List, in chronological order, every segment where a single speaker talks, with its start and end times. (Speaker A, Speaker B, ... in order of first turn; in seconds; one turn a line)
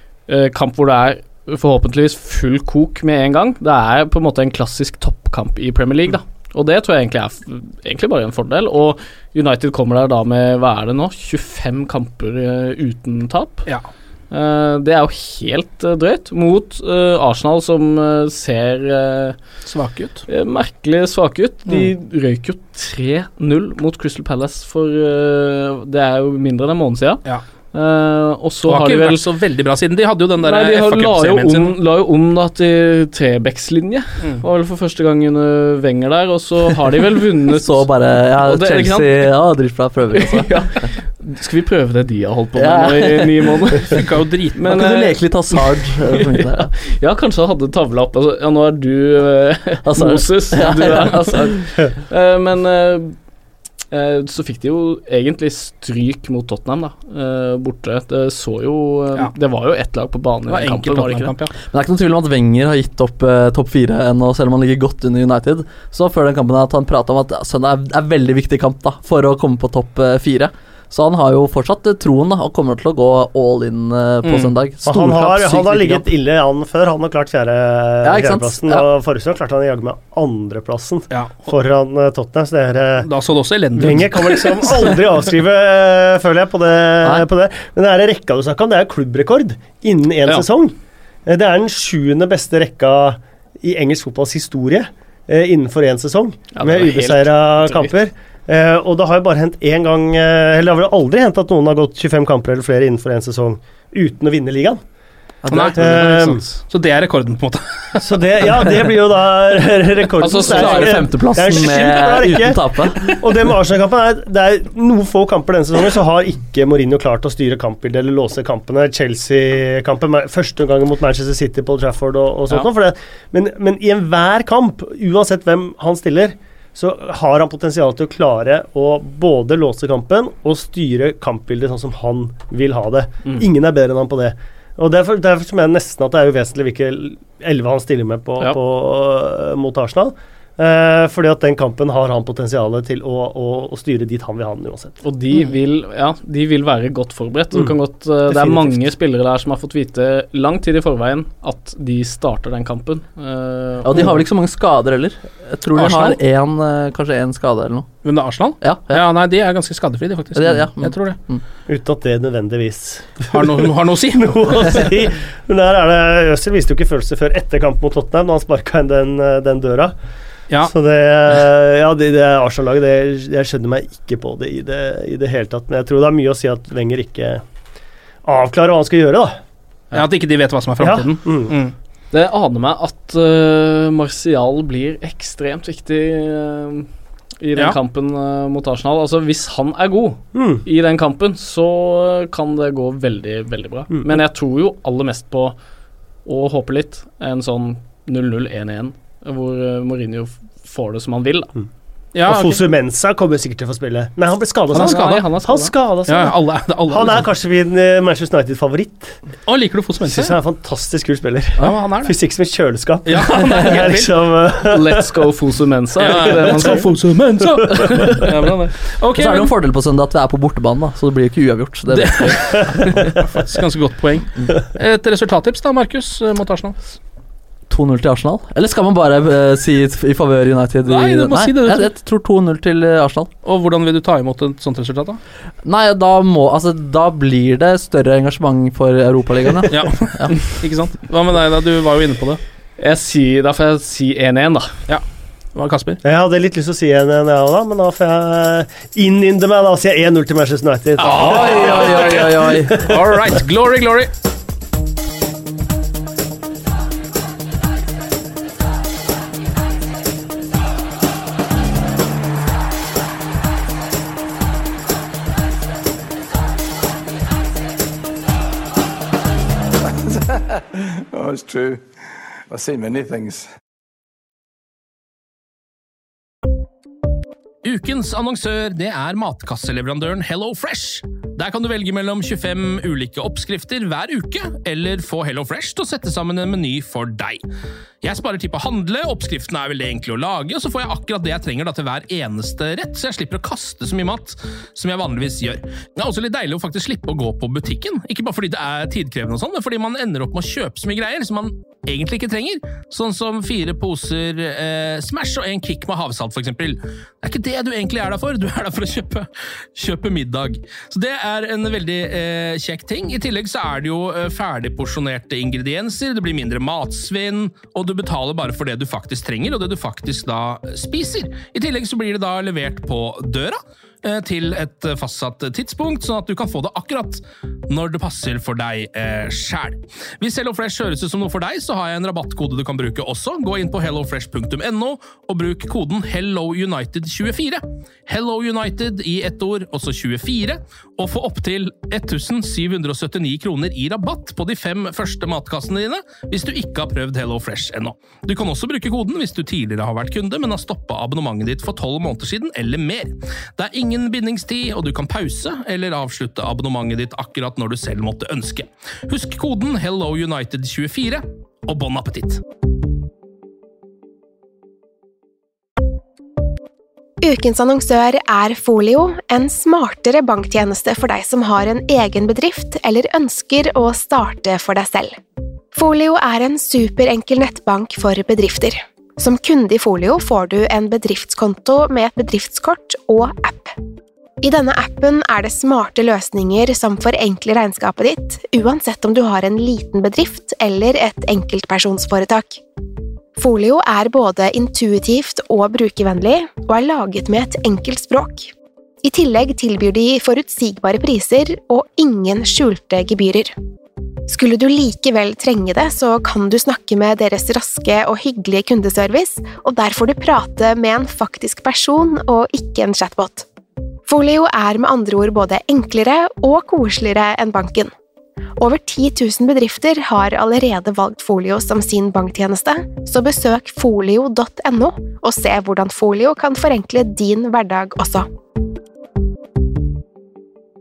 Speaker A: 0.3-13.6
Speaker A: 14.3-19.4
Speaker B: 19.6-20.2
Speaker A: 20.3-27.2
Speaker B: 21.7-21.9
Speaker A: 27.7-29.2
Speaker B: 28.6-31.8
Speaker A: 30.4-39.2
Speaker C: 37.5-40.5
Speaker A: 40.1-44.0
Speaker C: 42.5-43.4
Speaker B: 43.9-44.8
Speaker A: 44.5-45.1
Speaker C: 44.7-46.7
Speaker A: 46.1-53.1
Speaker C: 49.8-51.4
Speaker A: 53.9-61.3
Speaker B: 60.5-61.5
Speaker C: 61.7-76.0
Speaker B: 74.2-74.5
Speaker D: 74.8-83.1
Speaker C: 78.0-78.9
Speaker B: 81.1-81.5
Speaker B: 83.0-84.9
Speaker D: 83.8-90.7
Speaker D: 91.2-104.8
Speaker A: 96.5-97.9
Speaker C: 105.4-106.2
Speaker B: 105.5-108.0
Speaker D: 105.8-106.4
Speaker D: 108.0-145.0
Speaker A: 110.2-111.0
Speaker C: 110.3-113.1
Speaker A: 145.0-154.1
Speaker C: 148.3-148.8
Speaker C: 153.8-157.9
Speaker B: 155.7-156.2
Speaker B: 158.0-161.2
Speaker C: 158.6-159.0
Speaker C: 160.3-161.4
Speaker D: 161.7-169.9
Speaker B: 163.3-164.3
Speaker D: 170.7-177.4
Speaker D: 178.2-179.4
Speaker B: 179.9-181.7
Speaker D: 180.8-181.5
Speaker A: 182.1-186.9
Speaker A: 187.4-195.6
Speaker D: 190.3-190.6
Speaker A: 196.2-201.5
Speaker B: 202.1-202.6
Speaker D: 202.2-206.4
Speaker A: 204.7-205.7
Speaker B: 204.7-205.2
Speaker B: 206.1-207.3
Speaker D: 206.9-209.2
Speaker B: 209.5-210.3
Speaker D: 210.1-215.0
Speaker B: 211.6-212.1
Speaker B: 213.0-214.1
Speaker A: 214.7-216.9
Speaker B: 216.0-219.5
Speaker D: 216.3-216.8
Speaker C: 219.2-222.4
Speaker B: 221.9-226.8
Speaker C: 227.7-233.3
Speaker B: 230.8-231.9
Speaker B: 233.4-235.2
Speaker C: 235.6-240.3
Speaker B: 239.7-242.4
Speaker A: 242.8-244.7
Speaker B: 245.5-246.0
Speaker D: 246.0-253.1
Speaker B: 251.0-251.5
Speaker C: 251.0-252.8
Speaker B: 252.7-254.1
Speaker E: 269.8-271.8
Speaker E: 272.5-273.5
Speaker B: 277.6-287.4
Speaker B: 288.0-362.4
Speaker F: 367.2-375.2
Speaker F: 375.7-383.8
Speaker F: 384.4-392.6
Speaker F: 393.4-398.5
Speaker F: 399.0-403.5
Speaker F: 404.3-413.4
Speaker F: 414.1-417.9
Speaker F: 418.6-428.3